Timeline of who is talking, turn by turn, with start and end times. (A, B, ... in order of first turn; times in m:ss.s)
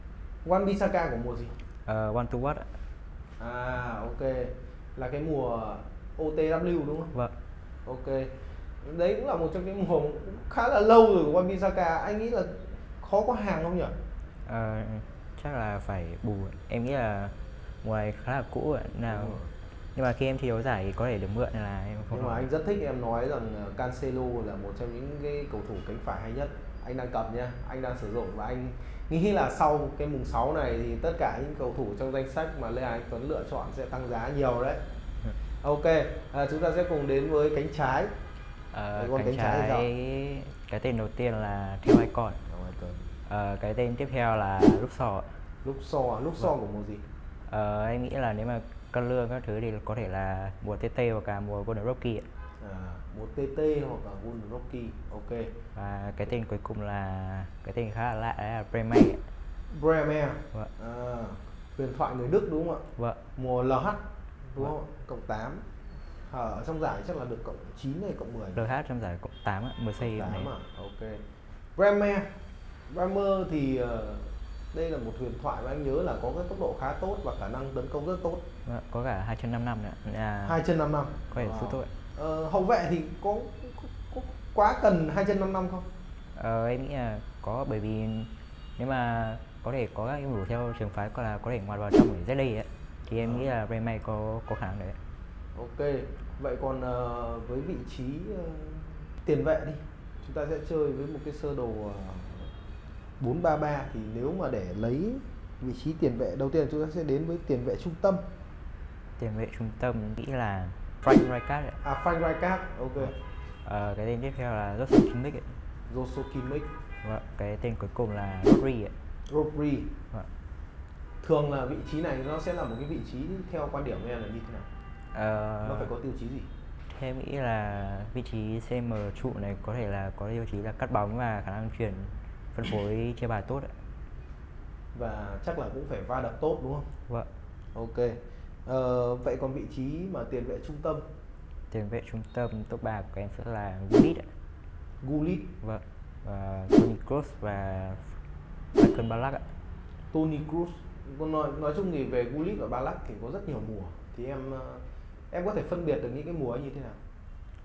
0:00.4-0:01.6 A
0:01.9-0:02.7 B
0:03.4-0:07.1 A
0:07.8-0:13.9 A
0:14.5-0:19.4 B
0:19.1-0:19.5 A
0:20.0-0:22.5 B
0:22.1-0:34.8 A
0:35.6-0:38.1 A
0:38.7-0:42.4 B
0:39.0-0:39.9 A
0:42.5-0:43.1 A
0:43.3-0:45.3 B
0:45.6-0:47.0 A
0:47.5-0:52.3 B
0:52.6-0:55.6 A
0:55.8-0:59.2 B
0:59.7-1:05.6 A
1:06.3-1:08.6 A
1:08.6-1:10.5 B
1:10.0-1:11.2 A
1:11.8-1:12.3 A
1:12.9-1:18.5 A
1:18.7-1:20.6 B
1:20.4-1:25.9 A
1:21.3-1:21.9 B
1:26.4-1:35.0 B
1:33.2-1:33.5 A
1:35.6-1:42.5 A
1:43.2-1:48.2 A
1:49.2-1:51.8 B
1:51.8-1:53.2 A
1:53.6-1:55.6 B
1:55.9-1:56.7 A
1:57.0-1:58.9 B
1:59.3-1:59.9 A
2:01.2-2:04.7 A
2:05.1-2:05.9 B
2:05.6-2:06.5 A
2:06.9-2:13.7 B
2:14.9-2:16.9 A
2:17.7-2:21.1 A
2:21.7-2:24.3 B
2:25.0-2:25.5 A
2:25.6-2:28.1 B
2:28.8-2:29.5 B
2:30.1-2:37.0 A